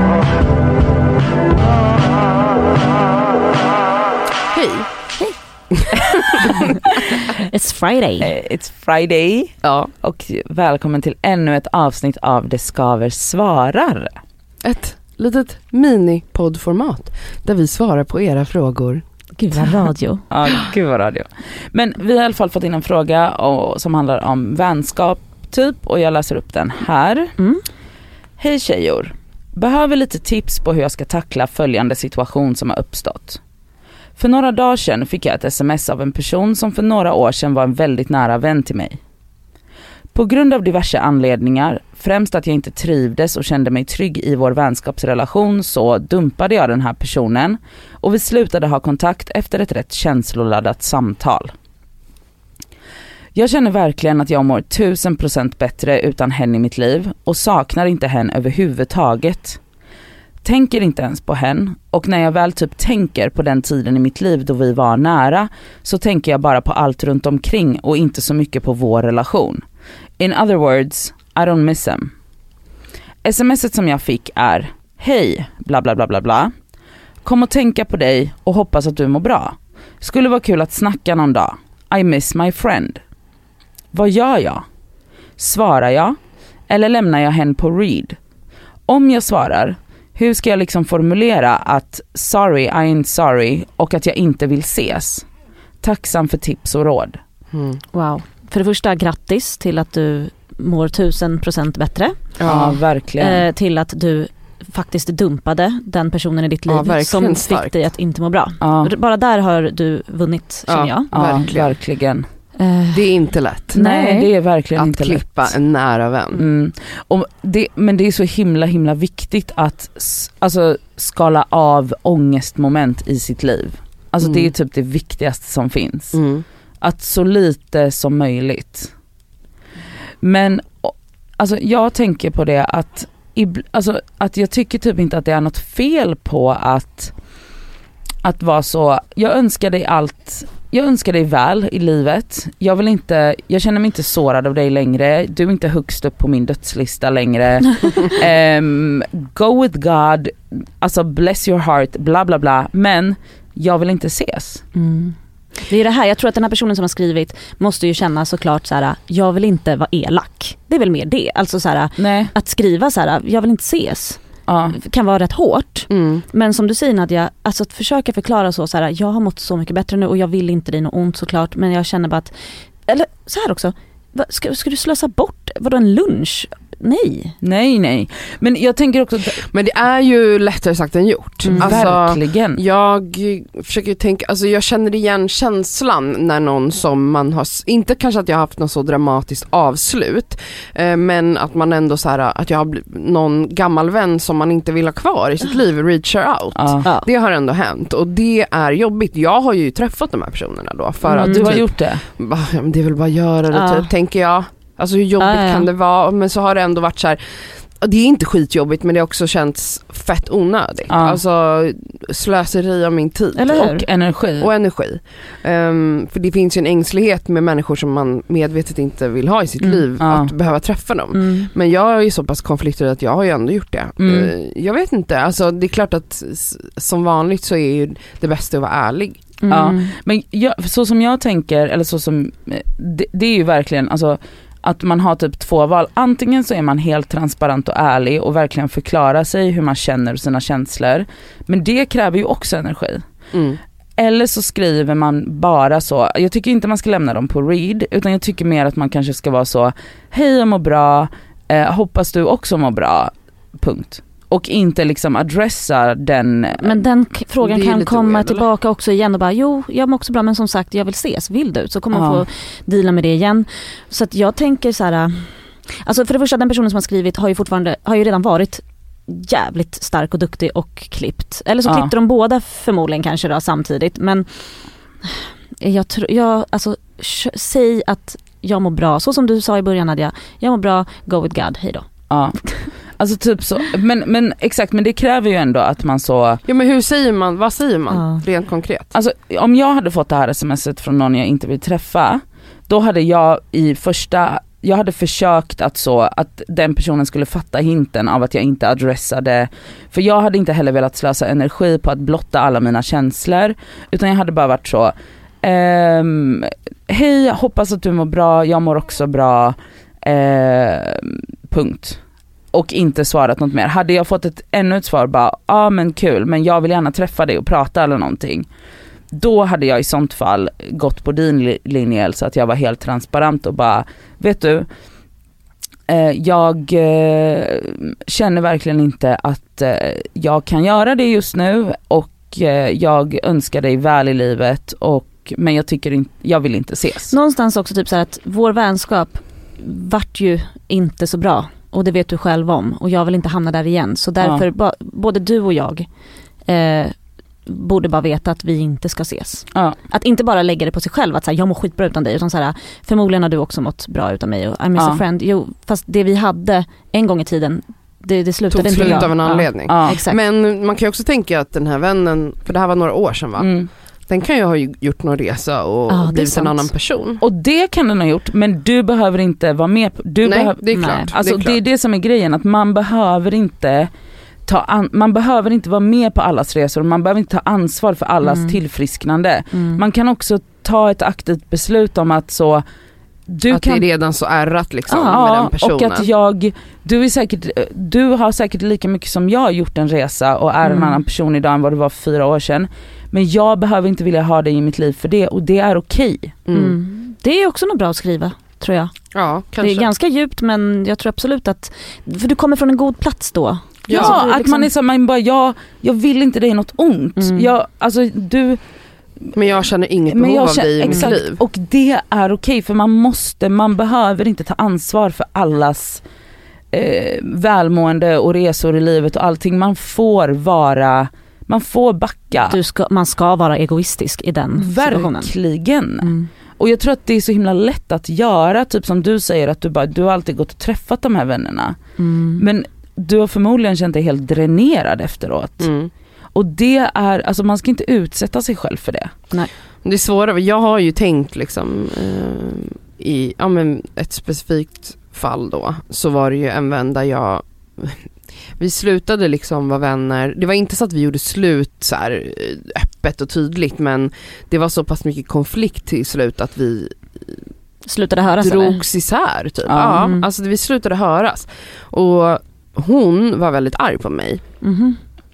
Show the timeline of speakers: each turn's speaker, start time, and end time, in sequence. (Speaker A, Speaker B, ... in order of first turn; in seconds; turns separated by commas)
Speaker A: 4.5-5.0, Speaker A: 5.8-6.3, Speaker B: 7.3-8.3, Speaker C: 8.2-14.2, Speaker A: 9.6-9.9, Speaker A: 14.6-19.0, Speaker B: 19.4-20.2, Speaker C: 20.3-27.3, Speaker B: 27.4-27.6, Speaker C: 28.4-33.4, Speaker C: 34.2-39.0, Speaker C: 40.1-51.5, Speaker C: 53.4-59.6, Speaker C: 60.4-69.6, Speaker C: 70.2-72.1, Speaker C: 73.2-76.5, Speaker C: 77.2-83.0, Speaker C: 83.9-84.7, Speaker C: 85.4-86.2, Speaker C: 86.7-88.2, Speaker C: 88.9-95.3, Speaker C: 95.8-97.2, Speaker A: 97.5-97.8, Speaker B: 97.9-102.3, Speaker A: 102.4-102.8, Speaker C: 102.5-103.4, Speaker B: 103.2-111.1, Speaker A: 106.7-107.9, Speaker C: 108.6-108.9, Speaker A: 110.7-111.8, Speaker C: 111.1-112.3, Speaker B: 112.6-113.2, Speaker A: 112.9-113.8, Speaker B: 113.7-114.3, Speaker C: 113.7-115.6, Speaker A: 114.7-116.4, Speaker C: 116.3-126.2, Speaker A: 124.2-124.5, Speaker A: 126.1-126.5, Speaker C: 126.8-128.9, Speaker C: 130.2-137.1, Speaker C: 138.2-154.6, Speaker B: 154.7-177.4, Speaker C: 162.0-162.3, Speaker C: 164.5-164.8, Speaker A: 165.9-166.2, Speaker C: 177.4-179.4, Speaker A: 179.4-213.7, Speaker B: 181.4-181.8, Speaker C: 181.5-182.6, Speaker C: 196.6-196.9, Speaker B: 201.1-201.6, Speaker C: 201.2-202.0, Speaker B: 203.5-203.9, Speaker B: 205.2-205.7, Speaker C: 210.9-211.2, Speaker B: 213.4-213.9, Speaker C: 213.5-214.5, Speaker A: 214.4-229.2, Speaker C: 220.0-220.3, Speaker B: 221.1-221.5, Speaker C: 224.0-224.3, Speaker B: 229.4-229.9, Speaker C: 229.5-243.0, Speaker A: 243.3-243.6, Speaker C: 244.0-256.8, Speaker B: 256.6-274.5, Speaker A: 257.4-258.5, Speaker C: 261.9-262.3, Speaker C: 271.6-271.9, Speaker B: 275.0-281.9, Speaker C: 282.1-286.4, Speaker A: 286.5-288.9, Speaker B: 287.9-288.2, Speaker C: 288.9-312.0, Speaker C: 312.5-318.5, Speaker C: 319.1-324.7, Speaker C: 325.9-337.1, Speaker B: 337.1-345.9, Speaker C: 344.2-344.4, Speaker B: 346.5-346.9, Speaker B: 347.5-360.2, Speaker C: 349.5-349.8, Speaker C: 354.8-355.0, Speaker A: 358.5-367.2, Speaker C: 359.7-360.0, Speaker C: 363.4-363.7, Speaker B: 365.9-366.7, Speaker C: 367.2-373.9, Speaker A: 370.2-371.6, Speaker B: 370.7-371.1, Speaker C: 374.5-382.6, Speaker B: 378.2-378.6, Speaker B: 379.5-379.8, Speaker C: 383.3-383.8, Speaker A: 383.5-386.1, Speaker B: 384.9-385.2, Speaker C: 385.0-396.4, Speaker B: 390.6-391.0, Speaker A: 396.5-396.8, Speaker B: 396.5-398.9, Speaker A: 399.1-399.9, Speaker B: 399.6-404.7, Speaker A: 403.9-404.2, Speaker C: 403.9-408.6, Speaker B: 407.2-407.5, Speaker A: 409.3-411.4, Speaker C: 410.1-416.0, Speaker C: 416.7-422.6, Speaker B: 422.4-425.3, Speaker C: 424.6-431.8, Speaker B: 426.0-426.3, Speaker B: 432.0-432.4, Speaker C: 432.4-435.7, Speaker A: 435.6-435.9, Speaker C: 436.3-439.1, Speaker A: 439.8-457.4, Speaker B: 457.8-458.8, Speaker A: 458.4-464.4, Speaker C: 459.7-460.0, Speaker B: 459.9-460.3, Speaker B: 464.6-465.0